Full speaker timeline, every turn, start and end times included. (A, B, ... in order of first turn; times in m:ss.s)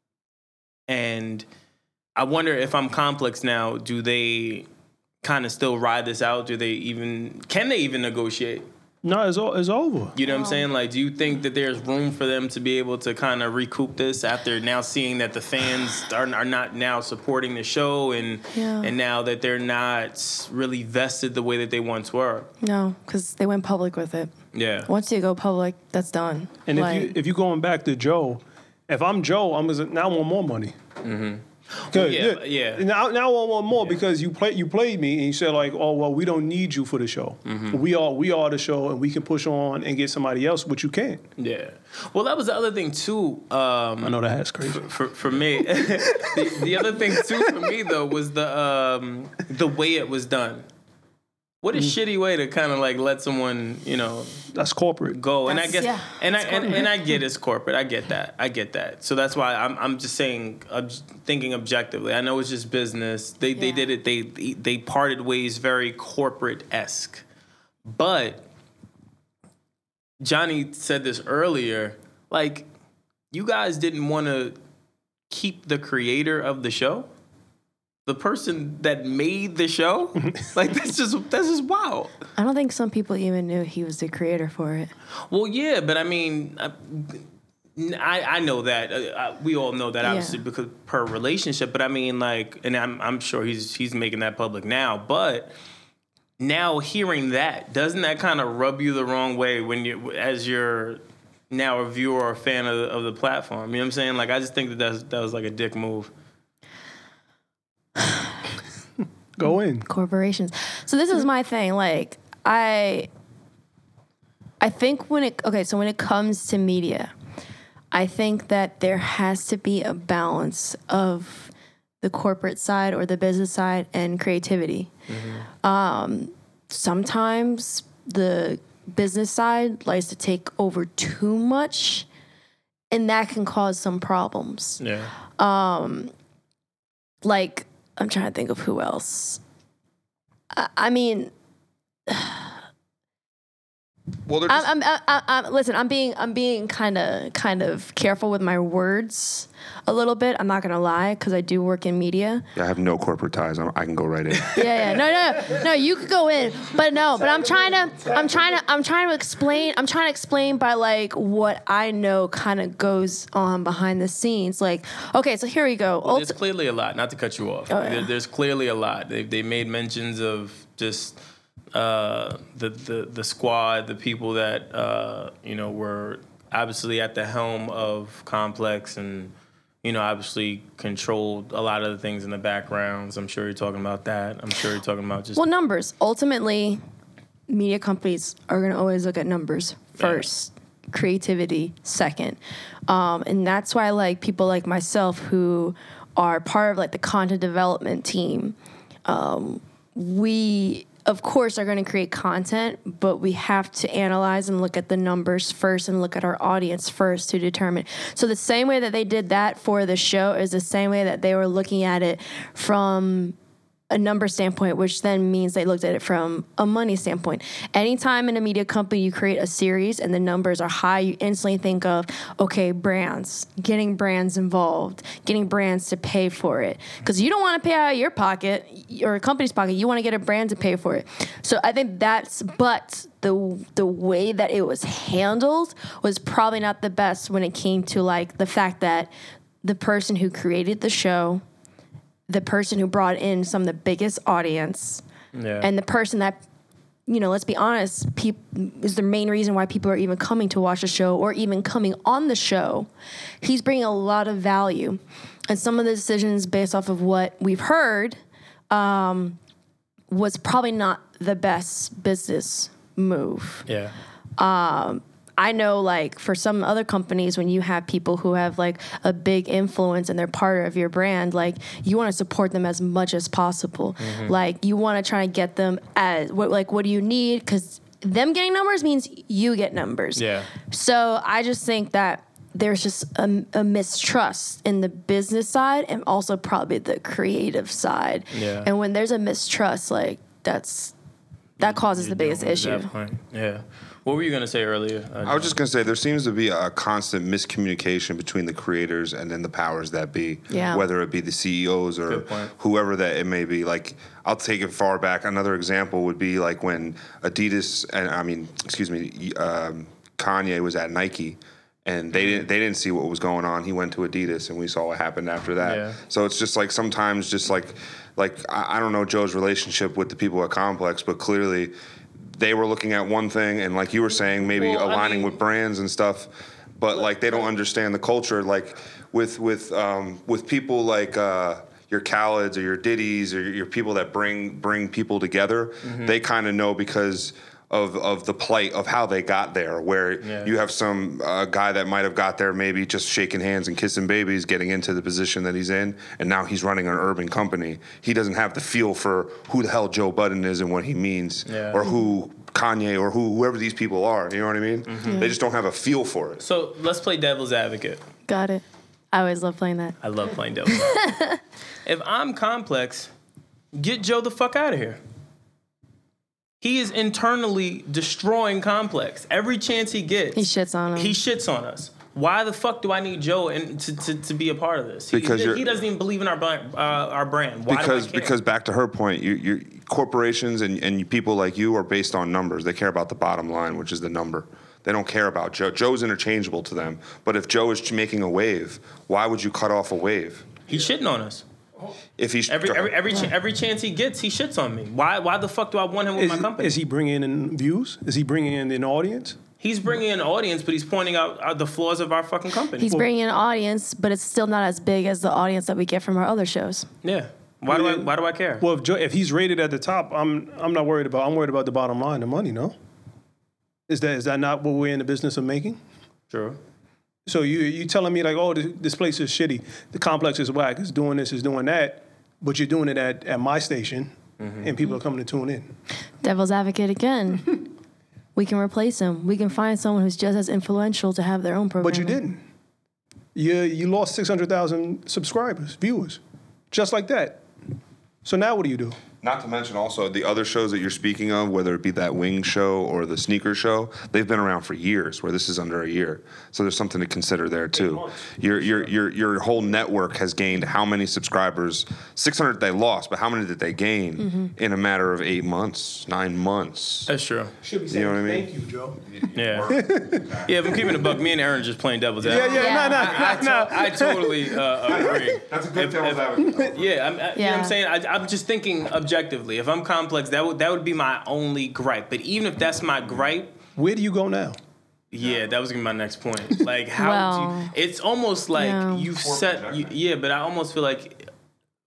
0:00.9-0:01.4 A
0:02.2-0:04.7 A
0:05.2-0:08.7 A
0:09.0-0:10.2 B
0:10.2-0:22.5 A
0:10.3-0:10.7 C
0:18.5-0:18.9 C
0:22.6-0:24.3 C
0:24.5-0:24.9 A
0:24.9-0:27.1 C
0:26.7-0:30.8 B
0:31.0-0:32.9 A
0:31.9-0:41.2 B
0:37.4-0:37.8 A
0:41.4-0:50.6 A
0:44.0-0:44.9 B
0:46.2-0:46.8 B
0:51.6-0:54.5 A
0:54.5-0:55.2 B
0:55.1-1:07.2 A
0:55.5-0:56.9 C
1:03.6-1:03.9 C
1:07.9-1:08.5 A
1:10.2-1:12.7 A
1:13.3-1:14.6 A
1:15.3-1:17.1 A
1:18.1-1:22.1 A
1:22.4-1:24.9 C
1:25.3-1:27.2 A
1:27.8-1:35.5 A
1:30.0-1:30.4 C
1:36.4-1:46.1 A
1:48.0-1:48.3 C
1:49.4-1:49.9 B
1:49.8-1:53.1 C
1:54.6-1:57.1 C
1:57.9-2:01.5 C
2:02.0-2:04.9 C
2:05.1-2:05.5 A
2:05.6-2:12.1 C
2:12.9-2:14.8 C
2:14.8-2:15.1 A
2:15.4-2:16.1 C
2:17.2-2:19.4 C
2:20.5-2:21.3 C
2:22.1-2:22.5 C
2:24.3-2:24.7 D
2:24.5-2:32.5 C
2:32.6-2:35.0 D
2:34.6-2:46.3 C
2:46.0-2:51.2 A
2:47.7-2:48.1 C
2:51.7-3:05.4 A
3:05.4-3:06.8 C
3:07.5-3:33.4 C
3:10.0-3:10.2 A
3:33.9-3:59.1 C
3:59.6-4:01.4 C
4:02.3-4:05.0 C
4:05.3-4:05.7 A
4:05.6-4:06.4 C
4:07.1-4:12.9 C
4:13.4-4:18.2 C
4:18.7-4:19.4 C
4:20.1-4:23.7 C
4:23.7-4:23.9 A
4:24.4-4:51.0 C
4:34.0-4:34.3 A
4:40.2-4:40.5 A
4:48.3-4:48.7 A
4:51.6-4:52.9 C
4:51.6-4:55.5 A
4:55.2-5:21.7 D
5:00.5-5:00.8 C
5:02.1-5:02.5 A
5:12.2-5:12.4 A
5:15.6-5:16.0 A
5:22.2-5:56.4 D
5:24.5-5:25.4 A
5:35.8-5:36.2 A
5:40.2-5:40.5 A
5:51.5-5:51.8 A
5:54.9-5:55.3 A
5:55.1-5:55.3 C
5:56.4-5:58.0 A
5:58.3-6:00.0 C
6:00.0-6:01.1 A
6:00.7-6:01.4 C
6:01.8-6:03.1 A
6:03.7-6:05.0 A
6:06.6-6:18.4 A
6:10.4-6:11.2 C
6:15.1-6:15.7 D
6:17.7-6:30.6 D
6:30.7-6:31.4 A
6:32.2-6:33.2 D
6:32.5-6:36.8 A
6:36.2-6:39.4 B
6:39.6-6:42.9 A
6:42.8-6:46.9 C
6:47.0-6:48.6 A
6:47.7-6:52.7 B
6:53.9-6:55.8 B
6:56.3-6:56.6 A
6:57.3-7:05.7 B
7:04.4-7:04.7 A
7:06.2-7:07.6 C
7:08.4-7:12.2 C
7:11.8-7:12.4 B
7:13.4-7:16.2 B
7:16.7-7:17.4 B
7:18.2-7:19.0 B
7:19.2-7:37.1 D
7:27.7-7:28.9 B
7:34.2-7:34.5 C
7:37.1-7:37.6 A
7:37.6-7:39.0 B
7:37.9-7:38.5 D
7:39.0-7:40.8 D
7:39.3-7:53.5 A
7:39.7-7:40.4 B
7:42.2-7:45.1 B
7:42.3-7:42.5 D
7:42.5-7:43.2 C
7:44.8-7:46.9 D
7:47.4-7:47.8 C
7:53.8-7:54.6 B
7:55.1-8:01.3 A
7:57.0-7:57.7 C
7:58.6-7:59.1 C
7:59.1-8:00.0 D